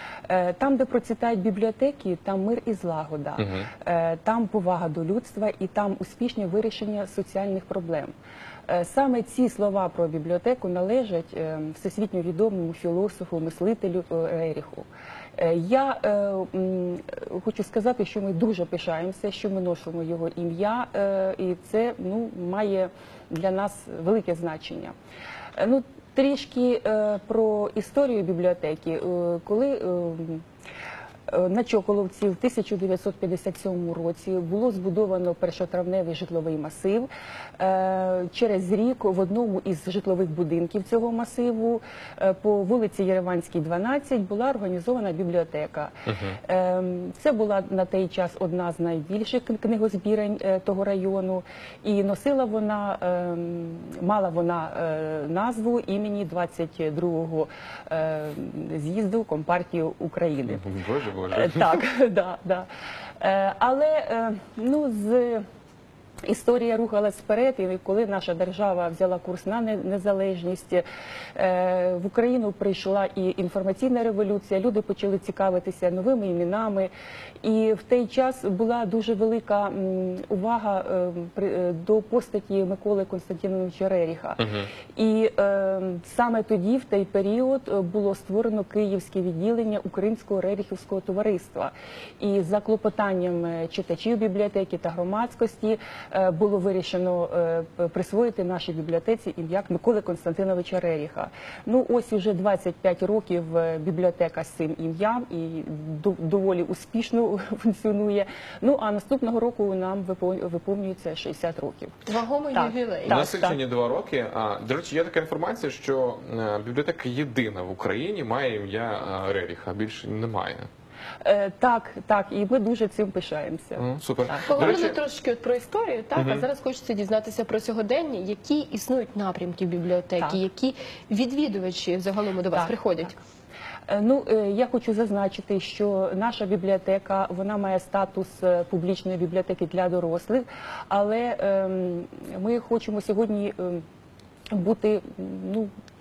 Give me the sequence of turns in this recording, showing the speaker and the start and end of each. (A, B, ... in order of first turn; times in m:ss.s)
0:00.3-0:08.1 A
0:03.4-0:03.7 B
0:08.7-0:24.9 A
0:25.6-0:30.4 A
0:31.3-1:00.6 A
0:46.1-0:46.4 B
1:00.5-1:01.8 B
1:01.3-1:02.7 A
1:03.2-1:05.4 A
1:06.2-1:10.8 A
1:11.4-1:16.9 A
1:17.4-1:24.4 A
1:24.4-1:24.7 B
1:25.0-1:52.0 A
1:52.1-1:53.2 C
1:52.5-1:53.6 A
1:53.1-2:00.7 B
2:01.2-2:04.6 A
2:03.8-2:05.0 B
2:04.5-2:13.2 C
2:06.2-2:06.5 B
2:12.5-2:13.1 A
2:13.9-2:23.8 A
2:24.5-2:25.7 A